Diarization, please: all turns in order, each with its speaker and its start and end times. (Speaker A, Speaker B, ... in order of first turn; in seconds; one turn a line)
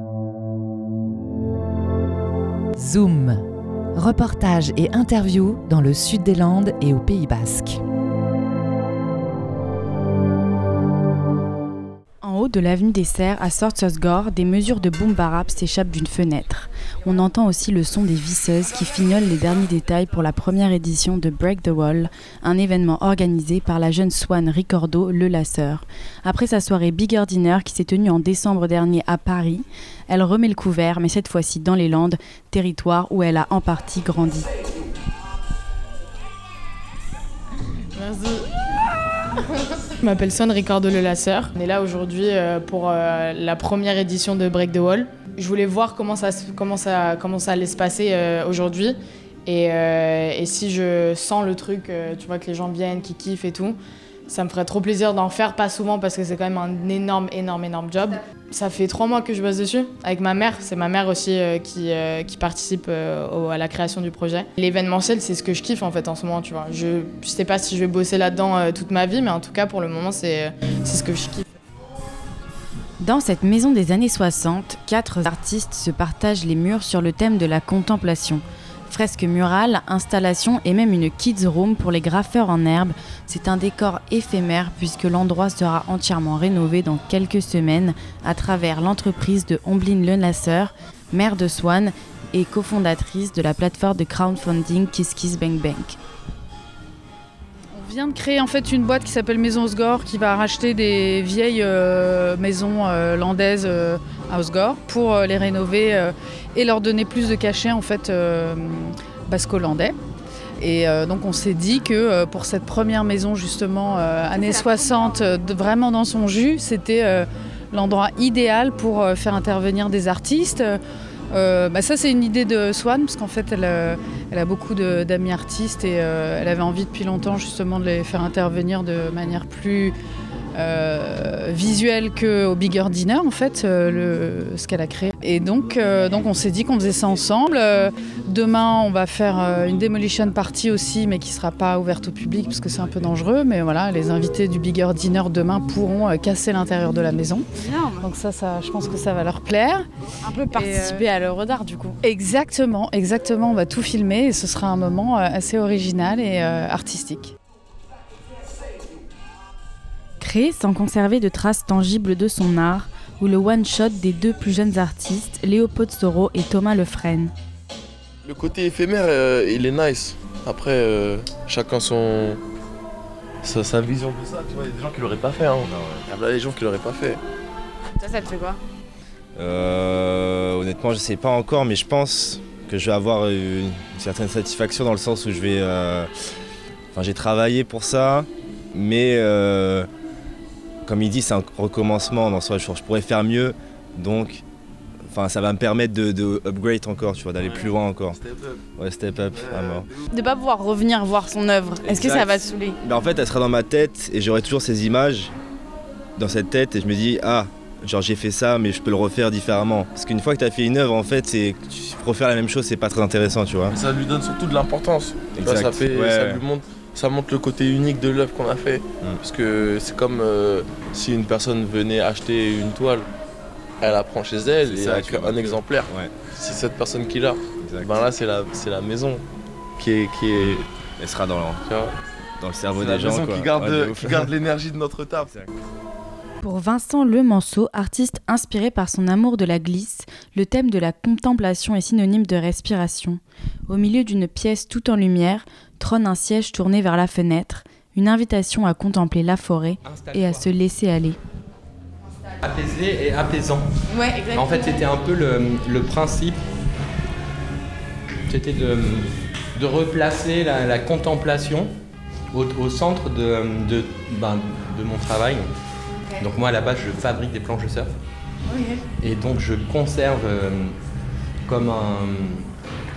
Speaker A: 2.8-3.4
Speaker A: 3.9-7.8
Speaker B: 12.2-34.5
Speaker C: 37.9-38.5
Speaker C: 40.0-53.8
Speaker C: 54.3-71.4
Speaker B: 73.0-96.0
Speaker D: 97.7-110.0
Speaker D: 110.6-120.8
Speaker E: 114.3-115.6
Speaker D: 121.3-129.9
Speaker D: 130.6-149.8
Speaker E: 147.6-148.1
Speaker E: 150.2-152.0
Speaker D: 150.5-151.3
Speaker D: 152.0-157.3
Speaker B: 160.2-167.3
Speaker F: 168.2-172.4
Speaker F: 173.4-177.2
Speaker G: 175.6-176.1
Speaker E: 178.0-178.6
Speaker G: 179.4-186.1
Speaker G: 186.9-189.9
Speaker G: 190.8-194.4
Speaker G: 195.1-198.2
Speaker F: 197.4-198.6
Speaker G: 198.8-199.9
Speaker F: 199.3-199.9
Speaker E: 200.1-202.8
Speaker G: 201.8-205.3
Speaker G: 206.2-213.8
Speaker F: 213.7-223.1
Speaker G: 215.4-216.4
Speaker F: 223.8-229.2
Speaker G: 224.7-226.1
Speaker G: 227.6-227.9
Speaker F: 229.8-230.6
Speaker G: 230.4-231.6
Speaker F: 231.7-231.9
Speaker G: 232.4-234.3
Speaker F: 232.8-235.3
Speaker B: 236.4-251.2
Speaker H: 249.8-250.5
Speaker H: 252.4-253.7
Speaker E: 253.9-254.8
Speaker H: 254.3-256.4
Speaker H: 258.3-261.7
Speaker H: 262.3-265.4
Speaker H: 266.2-267.9
Speaker E: 268.5-268.8
Speaker H: 269.0-270.7
Speaker H: 271.4-272.4